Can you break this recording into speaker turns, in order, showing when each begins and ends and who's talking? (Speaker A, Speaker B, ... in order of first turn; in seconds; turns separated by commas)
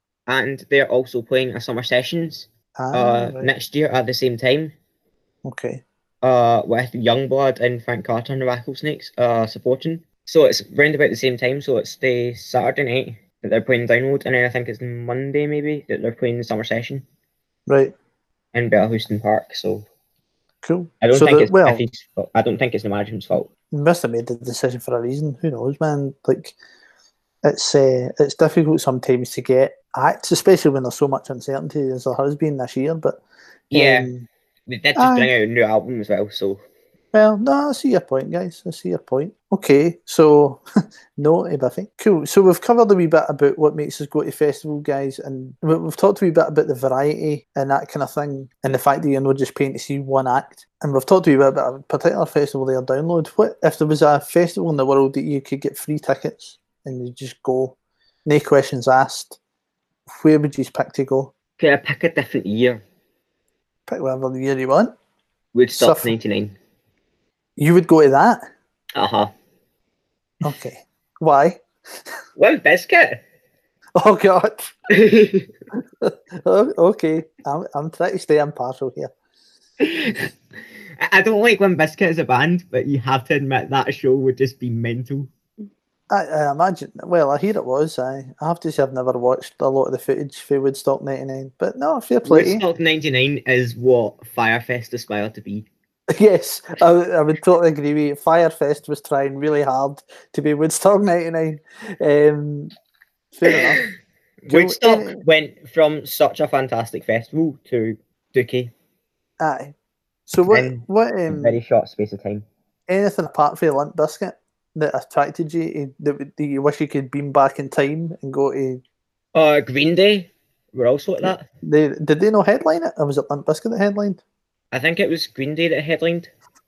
Speaker A: 0.3-4.7, Speaker B: 2.8-3.5, Speaker B: 5.5-5.8, Speaker A: 6.2-17.1, Speaker B: 17.7-17.9, Speaker A: 18.5-19.9, Speaker B: 20.6-21.8, Speaker A: 21.0-23.5, Speaker B: 23.7-26.6, Speaker B: 27.4-33.2, Speaker A: 33.7-34.1, Speaker B: 33.7-34.3, Speaker A: 34.7-36.6, Speaker B: 35.0-35.3, Speaker B: 37.1-40.6, Speaker B: 41.2-59.4, Speaker B: 60.1-61.3, Speaker A: 61.6-62.8, Speaker B: 63.9-64.9, Speaker A: 65.5-66.5, Speaker B: 65.7-66.1, Speaker B: 67.6-68.4, Speaker A: 69.0-69.3, Speaker B: 70.4-71.6, Speaker A: 72.4-73.2, Speaker B: 74.0-74.7, Speaker A: 74.9-75.5, Speaker B: 76.0-79.1, Speaker A: 79.8-80.3, Speaker A: 81.0-85.3, Speaker B: 86.1-92.6, Speaker A: 92.2-95.7, Speaker B: 96.1-102.7, Speaker B: 103.3-103.8, Speaker A: 103.5-103.9, Speaker A: 104.4-108.7, Speaker B: 104.5-105.2, Speaker B: 109.4-109.7, Speaker B: 110.3-111.6, Speaker A: 110.5-112.5, Speaker B: 112.9-118.8, Speaker A: 119.3-121.5, Speaker B: 121.2-124.2, Speaker A: 124.7-126.3